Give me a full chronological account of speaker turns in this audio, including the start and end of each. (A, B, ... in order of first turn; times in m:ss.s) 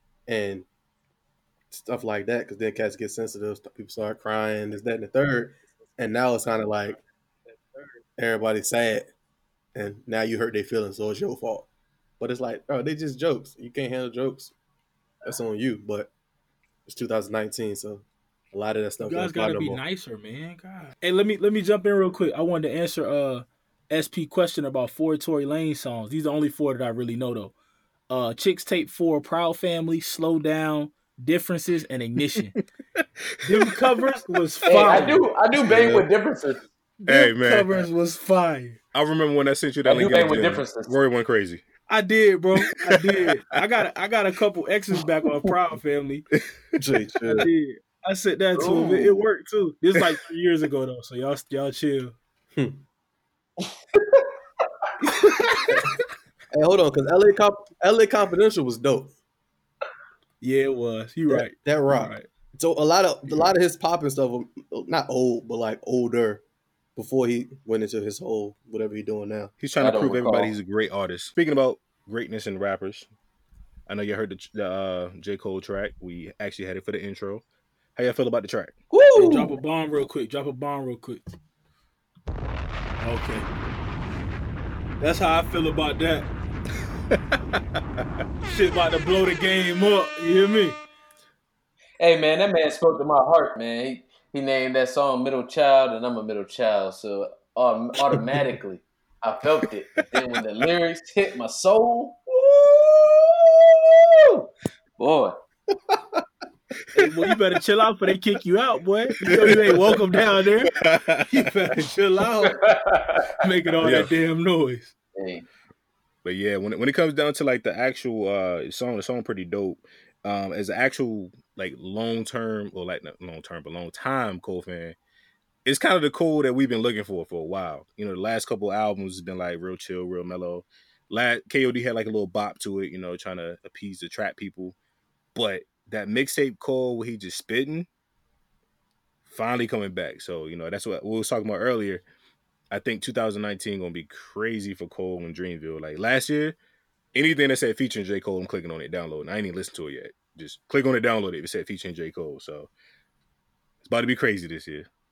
0:00.3-0:00.7 A
0:01.7-0:07.0 A
0:08.2-0:09.1 A
0:09.8-0:11.7 A
0:12.2-0:14.5 A
0:15.2-0:16.1 A
0:16.9-0:19.8 A
0:19.0-0:27.5 B
0:28.1-0:32.6 B
0:33.4-0:33.8 C
0:33.4-0:35.3 B
0:34.7-0:36.6 D
0:35.6-0:36.1 A
0:37.0-0:38.8 B
0:37.1-0:37.9 C
0:38.9-0:41.6 C
0:39.8-0:40.9 D
0:41.9-0:46.3 B
0:42.9-0:43.3 C
0:46.8-0:47.5 A
0:47.2-0:52.2 B
0:48.6-0:49.2 D
0:52.6-0:52.8 A
0:55.1-0:55.9 A
0:56.5-0:59.2 A
1:00.4-1:02.3 B
1:01.3-1:06.4 A
1:07.0-1:09.5 A
1:09.6-1:13.1 C
1:09.8-1:10.5 D
1:13.9-1:17.4 C
1:18.0-1:18.8 C
1:18.9-1:19.3 A
1:19.1-1:21.2 B
1:19.1-1:19.4 D
1:23.0-1:23.5 B
1:25.0-1:26.3 B
1:28.4-1:30.8 B
1:32.0-1:45.4 D
1:45.9-1:46.2 A
1:47.0-1:50.7 B
1:49.4-1:50.0 C
1:49.4-1:49.8 A
1:50.7-1:51.4 C
1:51.3-1:52.6 B
1:52.5-1:53.3 D
1:53.4-1:54.9 B
1:53.8-1:54.1 C
1:55.2-1:55.5 D
1:56.2-2:05.0 C
2:05.6-2:14.8 C
2:15.4-2:17.9 C
2:19.3-2:22.0 C
2:22.7-2:26.6 C
2:27.1-2:32.7 C
2:33.8-2:34.9 C